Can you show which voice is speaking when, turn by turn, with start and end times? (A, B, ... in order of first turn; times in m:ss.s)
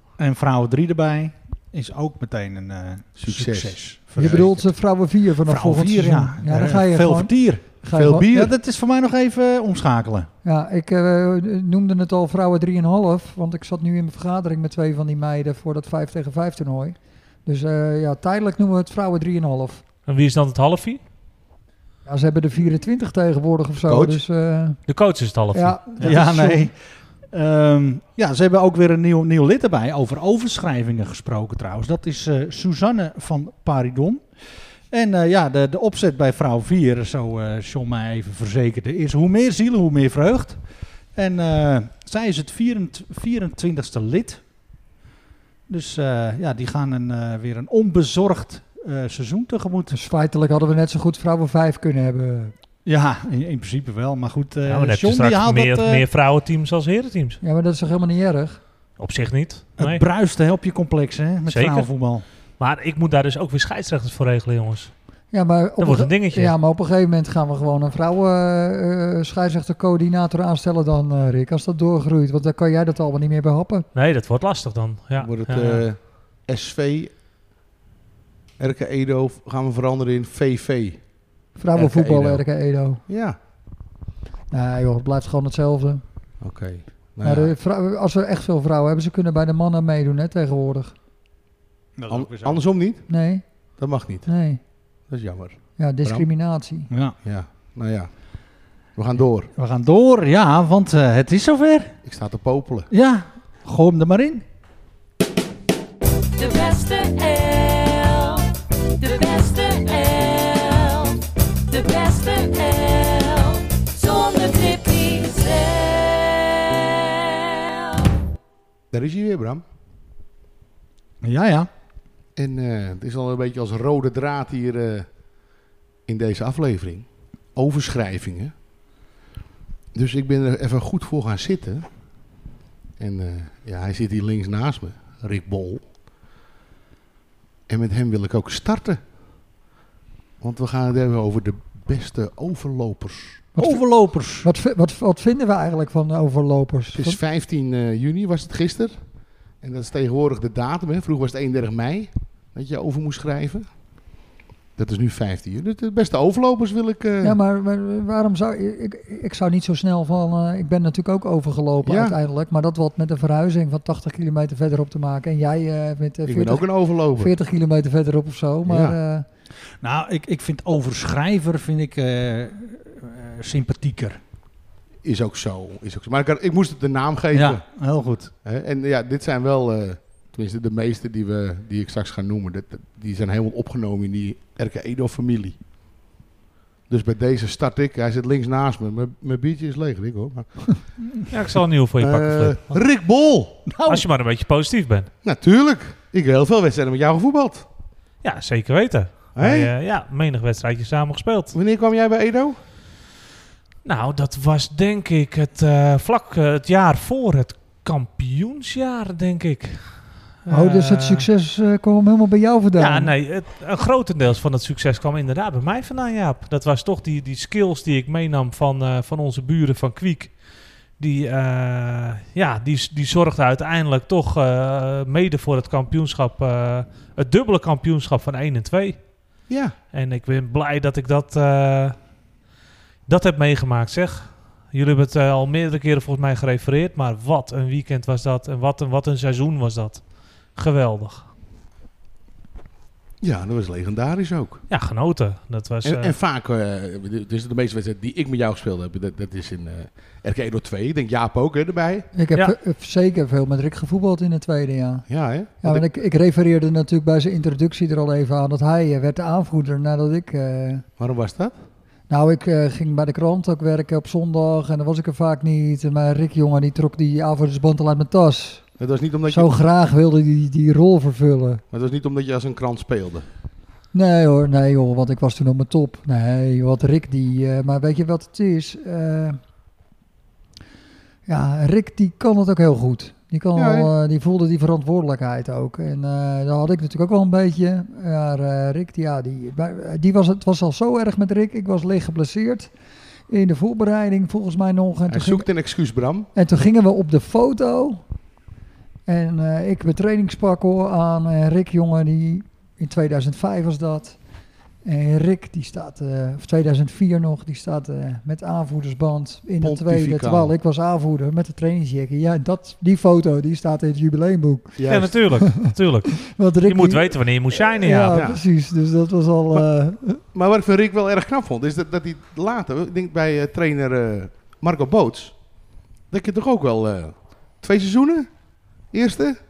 0:00.2-0:04.7 A
0:03.2-0:04.5 B
0:04.2-0:08.3 C
0:05.4-0:10.3 A
0:07.9-0:08.5 B
0:10.4-0:19.8 C
0:20.1-0:21.0 D
0:22.1-0:24.8 C
0:23.8-0:24.2 B
0:24.9-0:26.2 D
0:25.5-0:26.7 C
0:26.0-0:44.4 A
0:45.7-0:50.0 A
0:49.9-0:52.6 C
0:52.8-0:56.0 A
0:54.7-0:57.4 D
0:57.4-0:58.6 C
0:59.0-1:00.0 D
0:59.8-1:02.2 A
1:01.5-1:05.0 D
1:05.3-1:13.9 C
1:05.8-1:06.6 D
1:14.0-1:15.8 D
1:15.2-1:17.1 B
1:18.6-1:21.2 B
1:21.6-1:23.0 C
1:21.7-1:22.5 B
1:23.1-1:23.4 B
1:24.5-1:26.0 C
1:26.4-1:27.6 B
1:27.2-1:31.0 C
1:32.0-1:32.6 A
1:32.1-1:34.3 B
1:33.1-1:34.6 C
1:35.0-1:36.3 B
1:35.8-1:36.9 C
1:36.9-1:37.2 A
1:37.2-1:39.5 B
1:39.6-1:42.0 A
1:42.0-1:42.9 B
1:42.9-1:44.4 A
1:46.4-1:58.1 E
1:58.9-1:59.6 B
2:01.2-2:01.7 A
2:02.4-2:05.1 B
2:06.1-2:08.5 B
2:09.9-2:11.9 B
2:13.0-2:15.9 B
2:17.7-2:19.0 B
2:20.4-2:23.5 B
2:23.6-2:27.2 C
2:23.6-2:24.5 A
2:26.9-2:34.0 B
2:34.8-2:37.4 B
2:37.2-2:49.3 C
2:41.8-2:42.2 B
2:46.2-2:47.4 B
2:48.6-2:49.0 B
2:49.8-2:54.2 A
2:55.0-2:57.6 B
2:57.3-2:58.3 A
2:58.4-3:05.6 B
3:06.9-3:11.0 B
3:11.3-3:12.9 D
3:12.0-3:13.6 B
3:13.7-3:14.0 A
3:13.9-3:15.1 D
3:15.2-3:17.7 B
3:18.2-3:21.6 D
3:19.4-3:19.7 B
3:21.5-3:22.6 B
3:23.8-3:31.3 D
3:30.5-3:33.1 C
3:32.8-3:49.4 D
3:49.5-3:49.8 B
3:49.9-3:52.2 D
3:53.1-4:01.3 D
4:03.2-4:04.6 B
4:04.7-4:06.2 D
4:05.8-4:12.1 B
4:12.1-4:20.9 C
4:15.1-4:15.9 B
4:21.0-4:21.6 B
4:22.1-4:28.8 C
4:28.8-4:29.5 B
4:29.3-4:31.6 C
4:31.7-4:33.3 B
4:33.9-4:39.4 C
4:41.3-4:52.7 C
4:43.6-4:43.9 B
4:53.3-4:55.5 C
4:55.1-4:56.3 B
4:56.3-4:58.0 C
4:59.1-5:04.2 C
5:04.8-5:15.6 C
5:09.6-5:10.5 B
5:14.8-5:15.2 B
5:14.9-5:18.2 D
5:16.2-5:20.2 C
5:18.1-5:18.4 B
5:20.3-5:29.4 B